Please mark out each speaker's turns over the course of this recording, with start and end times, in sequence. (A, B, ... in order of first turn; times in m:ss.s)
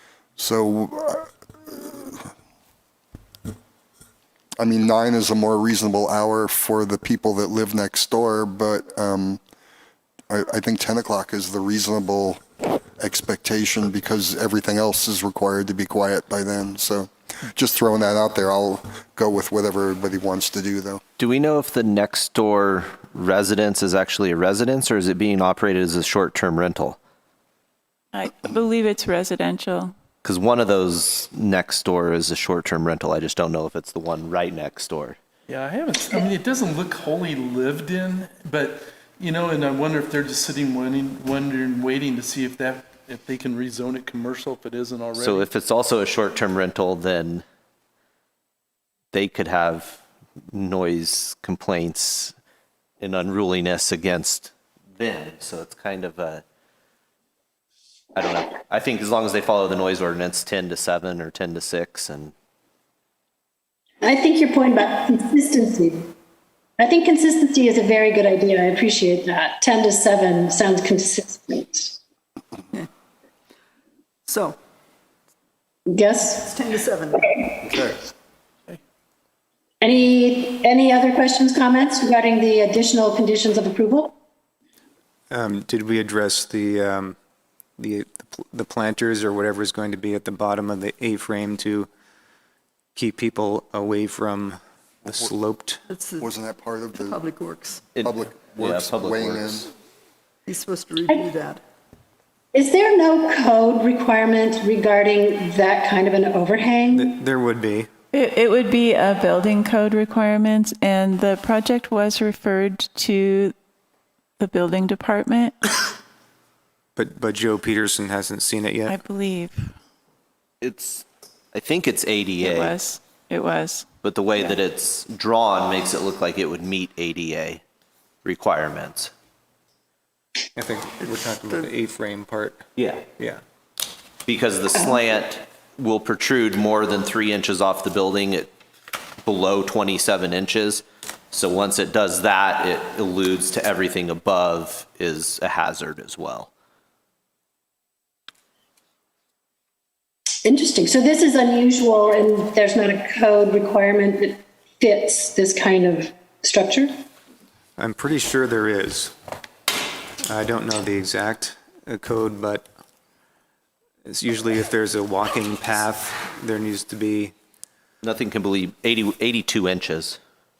0:00.4-0:02.3 A
0:04.6-0:09.4 A
0:10.3-0:12.4 A
0:13.0-0:21.0 A
0:21.2-0:27.0 B
0:28.1-0:29.9 C
0:30.2-0:35.2 B
0:35.5-0:45.5 D
0:45.1-0:47.4 B
0:49.1-0:52.3 B
0:53.0-0:56.4 B
0:58.1-1:02.3 B
1:04.0-1:06.1 E
1:06.8-1:12.0 E
1:14.2-1:14.6 F
1:15.9-1:16.6 E
1:16.4-1:17.4 F
1:17.6-1:18.1 A
1:19.8-1:24.1 E
1:25.3-1:27.2 G
1:27.8-1:31.9 G
1:32.9-1:35.8 G
1:35.9-1:36.3 F
1:36.2-1:37.2 A
1:37.0-1:37.8 F
1:37.9-1:39.7 B
1:38.0-1:39.7 A
1:40.4-1:41.6 F
1:42.5-1:47.2 E
1:46.9-1:47.9 G
1:48.1-1:53.5 C
1:54.4-1:55.8 C
1:56.9-1:59.0 G
1:58.8-1:59.7 C
2:00.6-2:02.8 B
2:02.4-2:03.9 C
2:04.0-2:07.6 B
2:08.2-2:09.1 B
2:10.5-2:13.4 G
2:11.1-2:11.7 F
2:12.8-2:13.0 B
2:14.2-2:18.5 B
2:14.7-2:15.0 E
2:19.2-2:26.5 B
2:30.4-2:36.9 E
2:37.8-2:39.1 G
2:40.2-2:42.7 G
2:44.0-2:47.3 G
2:48.0-2:50.2 B